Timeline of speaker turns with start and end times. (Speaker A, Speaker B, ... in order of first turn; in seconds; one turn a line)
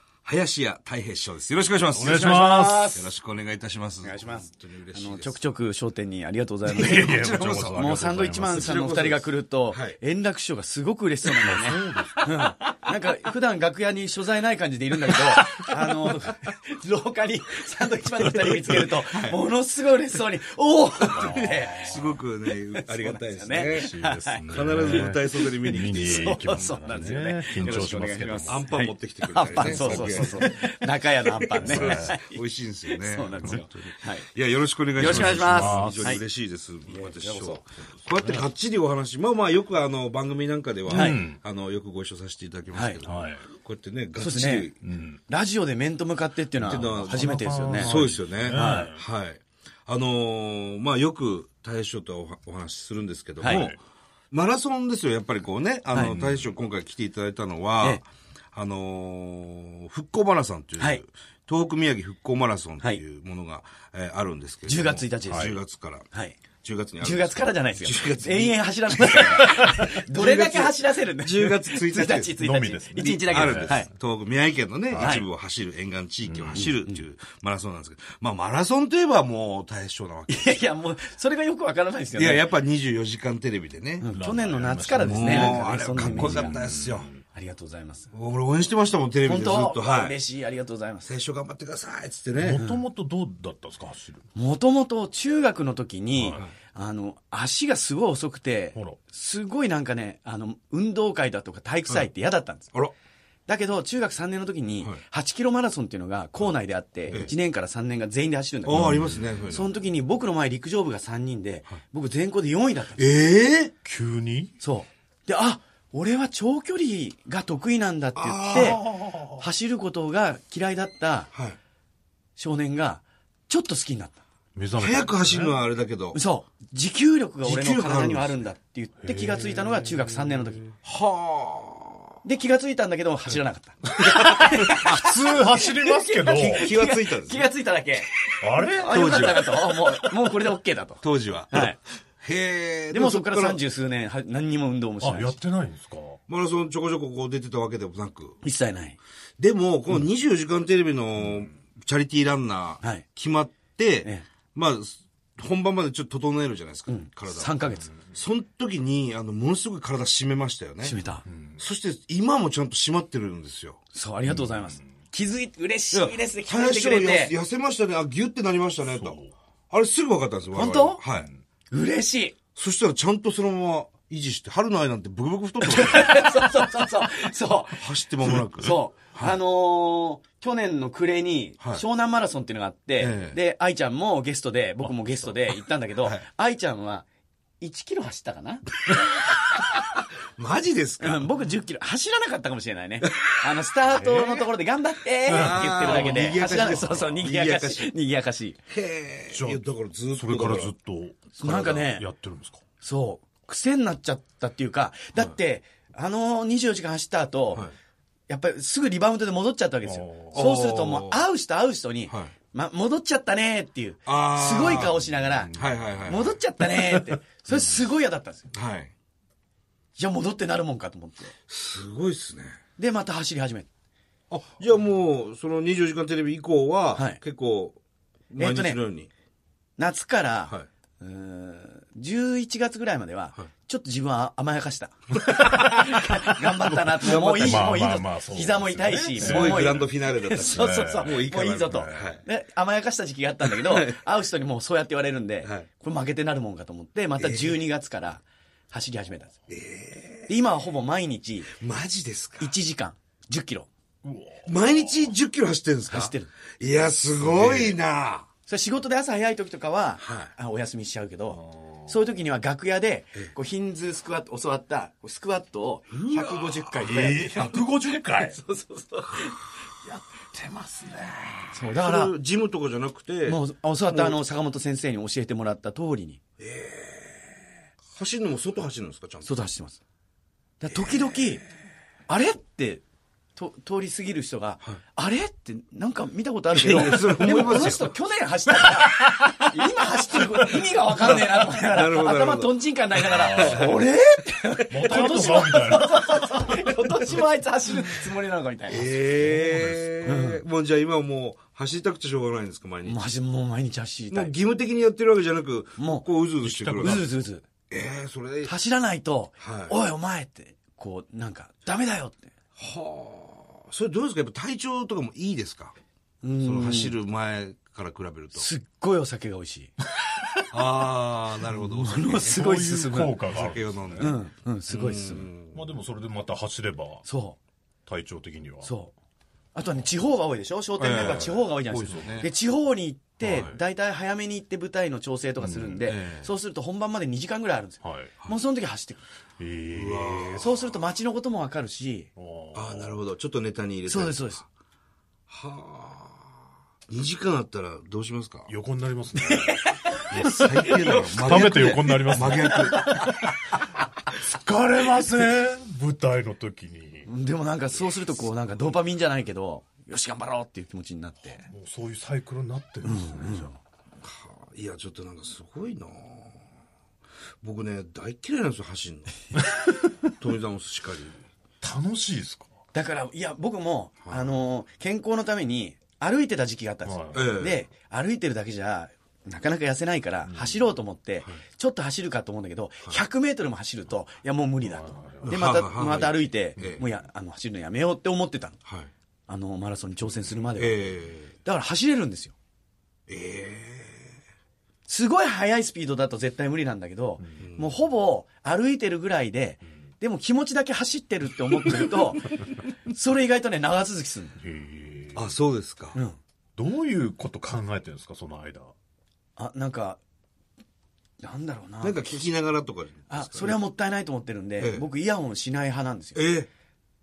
Speaker A: 0.2-5.4
Speaker B: 1.9-3.0
Speaker C: 2.1-3.1
Speaker C: 4.0-22.1
Speaker B: 6.7-8.8
Speaker A: 6.8-7.9
Speaker A: 8.5-10.0
Speaker B: 11.4-12.2
Speaker A: 12.2-12.5
Speaker A: 15.0-16.1
Speaker A: 18.4-19.4
Speaker A: 21.0-23.9
Speaker B: 21.1-22.1
Speaker C: 22.7-32.4
Speaker B: 23.6-28.7
Speaker A: 24.4-26.9
Speaker A: 28.4-30.6
Speaker B: 29.5-30.6
Speaker A: 31.5-44.8
Speaker B: 31.6-32.2
Speaker C: 32.9-34.3
Speaker C: 34.9-36.2
Speaker B: 35.0-36.2
Speaker C: 36.9-37.6
Speaker B: 38.1-38.5
Speaker C: 40.9-41.2
Speaker B: 40.9-41.4
Speaker C: 42.7-43.0
Speaker B: 43.0-43.4
Speaker C: 44.2-44.7
Speaker B: 44.8-45.2
Speaker C: 45.3-48.9
Speaker A: 46.6-53.7
Speaker B: 46.7-49.0
Speaker C: 53.4-53.7
Speaker B: 53.5-53.8
Speaker A: 54.3-66.1
Speaker B: 56.0-56.5
Speaker C: 64.7-65.6
Speaker B: 65.2-65.5
Speaker C: 66.1-66.4
Speaker A: 66.6-72.3
Speaker C: 67.0-73.9
Speaker B: 72.4-73.9
Speaker A: 73.0-80.6
Speaker B: 74.9-75.2
Speaker C: 75.0-75.3
Speaker B: 76.3-76.7
Speaker C: 76.5-77.0
Speaker C: 80.3-82.4
Speaker A: 82.1-84.1
Speaker C: 84.0-86.6
Speaker B: 84.1-87.2
Speaker A: 85.0-87.1
Speaker C: 87.3-88.1
Speaker A: 88.1-90.2
Speaker C: 89.2-91.1
Speaker A: 91.0-92.6
Speaker B: 92.4-94.2
Speaker C: 94.3-102.7
Speaker B: 96.2-96.4
Speaker A: 96.2-96.5
Speaker C: 103.5-109.0
Speaker A: 108.6-109.7
Speaker B: 108.7-109.4
Speaker C: 109.5-113.0
Speaker A: 113.0-113.7
Speaker B: 113.8-114.5
Speaker C: 114.6-121.3
Speaker A: 118.2-118.8
Speaker B: 118.5-119.5
Speaker A: 121.3-121.6
Speaker C: 122.4-124.2
Speaker B: 124.5-125.6
Speaker A: 124.8-126.2
Speaker C: 126.1-130.6
Speaker A: 127.4-128.4
Speaker B: 129.0-130.5
Speaker A: 130.8-132.0
Speaker C: 132.2-141.8
Speaker B: 134.0-136.7
Speaker A: 136.3-137.5
Speaker B: 138.4-139.2
Speaker A: 138.9-139.6
Speaker A: 141.0-143.6
Speaker C: 142.9-145.4
Speaker B: 145.0-146.2
Speaker A: 146.3-148.4
Speaker C: 148.4-149.0
Speaker A: 149.4-161.0
Speaker C: 156.9-157.9
Speaker C: 160.8-161.2
Speaker B: 161.2-161.6
Speaker A: 161.6-163.8
Speaker C: 163.9-167.3
Speaker B: 164.3-164.8
Speaker A: 165.9-171.3
Speaker B: 168.9-169.3
Speaker C: 170.5-171.0
Speaker C: 171.7-172.4
Speaker A: 172.5-176.3
Speaker C: 175.6-177.8
Speaker A: 177.8-179.3
Speaker C: 178.6-187.1
Speaker A: 183.0-183.4
Speaker B: 184.8-185.3
Speaker C: 187.6-188.7
Speaker A: 190.4-191.3
Speaker C: 191.0-198.6
Speaker A: 195.3-197.9
Speaker B: 195.3-196.2
Speaker A: 198.7-200.7
Speaker B: 199.3-199.6
Speaker B: 200.1-202.6
Speaker C: 201.4-202.1
Speaker C: 202.8-207.7
Speaker C: 208.3-215.6
Speaker B: 209.8-210.4
Speaker A: 210.3-211.2
Speaker A: 212.1-212.3
Speaker A: 214.1-215.0
Speaker B: 215.0-216.1
Speaker A: 215.5-216.3
Speaker C: 216.1-218.5
Speaker A: 218.5-218.9
Speaker C: 220.0-221.3
Speaker A: 221.5-222.6
Speaker C: 222.8-223.7
Speaker A: 224.3-227.8
Speaker A: 228.3-229.1
Speaker C: 228.4-228.8
Speaker C: 229.8-249.4
Speaker A: 236.8-237.8
Speaker B: 237.4-239.9
Speaker A: 239.2-242.2
Speaker B: 240.5-242.1
Speaker A: 243.6-244.0
Speaker A: 247.2-247.6
Speaker A: 249.5-250.3
Speaker C: 250.3-251.5
Speaker A: 251.5-252.5
Speaker C: 252.4-253.7
Speaker B: 254.0-255.1
Speaker A: 254.4-258.3
Speaker C: 255.9-256.3
Speaker B: 257.2-257.8
Speaker C: 258.5-269.4
Speaker A: 260.0-260.3
Speaker B: 261.3-261.9
Speaker A: 265.9-266.7
Speaker B: 266.8-268.4
Speaker B: 270.4-270.8
Speaker C: 271.5-272.1
Speaker A: 271.6-274.2
Speaker C: 273.2-276.2
Speaker A: 276.4-277.3
Speaker A: 277.9-279.3
Speaker C: 279.2-279.8
Speaker C: 280.6-281.4
Speaker C: 282.1-282.8
Speaker C: 283.4-298.9
Speaker A: 286.5-287.9
Speaker A: 291.0-293.7
Speaker B: 293.0-293.8
Speaker B: 294.7-296.5
Speaker A: 298.7-303.0
Speaker B: 299.1-300.0
Speaker C: 300.0-300.4
Speaker C: 302.9-304.3
Speaker A: 304.1-307.1
Speaker C: 305.8-306.1
Speaker B: 306.4-307.1
Speaker C: 306.8-307.4
Speaker A: 307.7-308.5
Speaker C: 308.4-312.3
Speaker A: 309.4-309.8
Speaker A: 312.6-315.7
Speaker C: 316.2-317.0
Speaker A: 316.4-318.5
Speaker C: 318.3-319.7
Speaker A: 320.5-322.4
Speaker C: 321.6-323.2
Speaker B: 322.2-324.1
Speaker A: 323.3-325.6
Speaker C: 324.0-325.3
Speaker B: 325.5-327.1
Speaker C: 327.0-327.4
Speaker B: 327.9-328.7
Speaker C: 328.6-328.9
Speaker C: 329.5-339.0
Speaker A: 330.8-332.3
Speaker B: 330.9-331.3
Speaker A: 333.2-333.6
Speaker B: 335.4-335.8
Speaker A: 335.8-336.3
Speaker B: 337.8-338.1
Speaker B: 339.4-340.5
Speaker A: 339.7-340.5
Speaker C: 340.3-342.1
Speaker B: 342.1-342.9
Speaker A: 342.5-344.4
Speaker C: 343.9-344.4
Speaker A: 345.3-346.2
Speaker A: 346.9-348.5
Speaker B: 348.5-349.6
Speaker C: 349.1-353.2
Speaker A: 350.1-353.0
Speaker B: 351.1-353.1
Speaker B: 354.3-357.1
Speaker C: 357.1-361.4
Speaker B: 361.4-363.5
Speaker C: 362.8-363.6
Speaker A: 364.0-366.4
Speaker A: 367.4-369.2
Speaker A: 370.2-371.2
Speaker B: 371.6-372.5
Speaker C: 372.7-388.6
Speaker A: 374.0-374.3
Speaker B: 376.8-377.3
Speaker A: 377.1-377.6
Speaker B: 380.2-380.6
Speaker B: 384.6-385.5
Speaker A: 385.2-386.8
Speaker B: 386.6-386.8
Speaker A: 388.6-388.9
Speaker C: 389.3-392.3
Speaker A: 390.6-391.3
Speaker A: 393.1-394.1
Speaker C: 394.9-404.4
Speaker A: 397.4-397.7
Speaker B: 404.4-405.3
Speaker A: 405.1-406.0
Speaker B: 406.6-408.7
Speaker C: 409.4-410.0
Speaker C: 411.2-412.3
Speaker A: 411.8-413.6
Speaker C: 413.1-416.2
Speaker A: 414.6-414.8
Speaker A: 416.1-416.5